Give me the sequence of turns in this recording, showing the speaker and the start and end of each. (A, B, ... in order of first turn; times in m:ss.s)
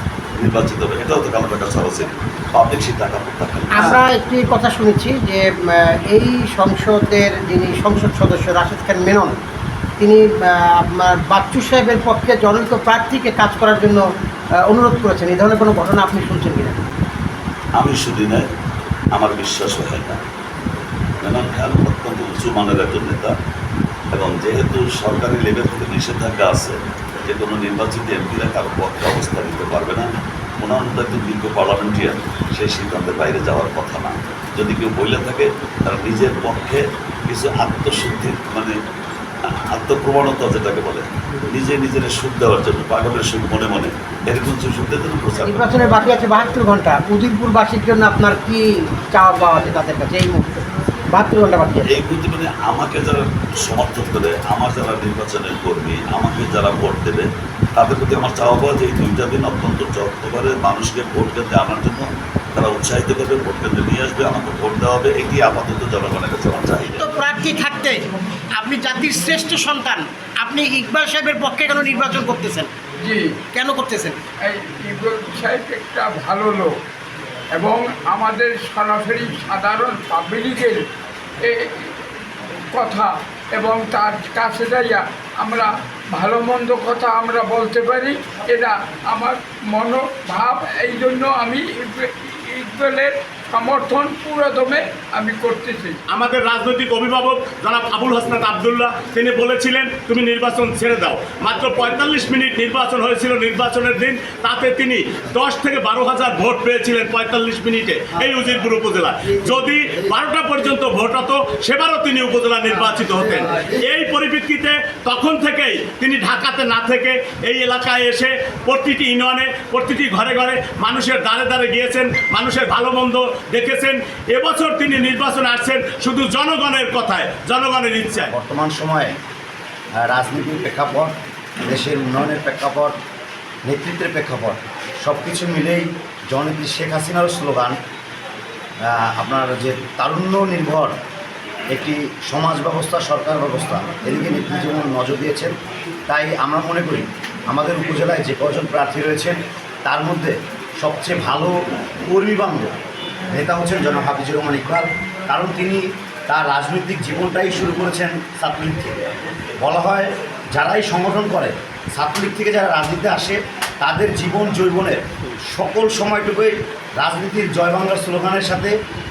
0:00.4-0:04.0 A
0:03.7-0:09.4 B
0:10.0-0:14.0 B
0:14.7-0:16.8 B
0:17.8-0:18.5 A
0:19.1-0:20.2 A
0:21.2-0:23.4 A
0:24.1-0:30.1 A
0:30.6-0:38.8 A
0:39.8-0:45.8 A
0:45.4-0:51.9 B
0:51.9-1:07.0 A
1:07.0-1:12.7 B
1:13.0-1:13.4 C
1:13.5-1:14.2 B
1:14.4-1:16.7 C
1:17.6-1:20.8 C
1:21.4-1:22.0 C
1:22.7-1:36.0 C
1:36.1-2:08.3 D
2:08.3-2:09.1 E
2:10.0-2:11.1 E
2:11.7-2:12.9 E
2:13.7-2:17.8 E
2:18.9-2:20.9 E
2:21.7-2:25.5 E
2:26.1-2:31.5 E
2:32.1-2:32.7 E
2:33.3-2:39.1 E
2:39.6-2:45.0 E
2:45.5-2:48.7 E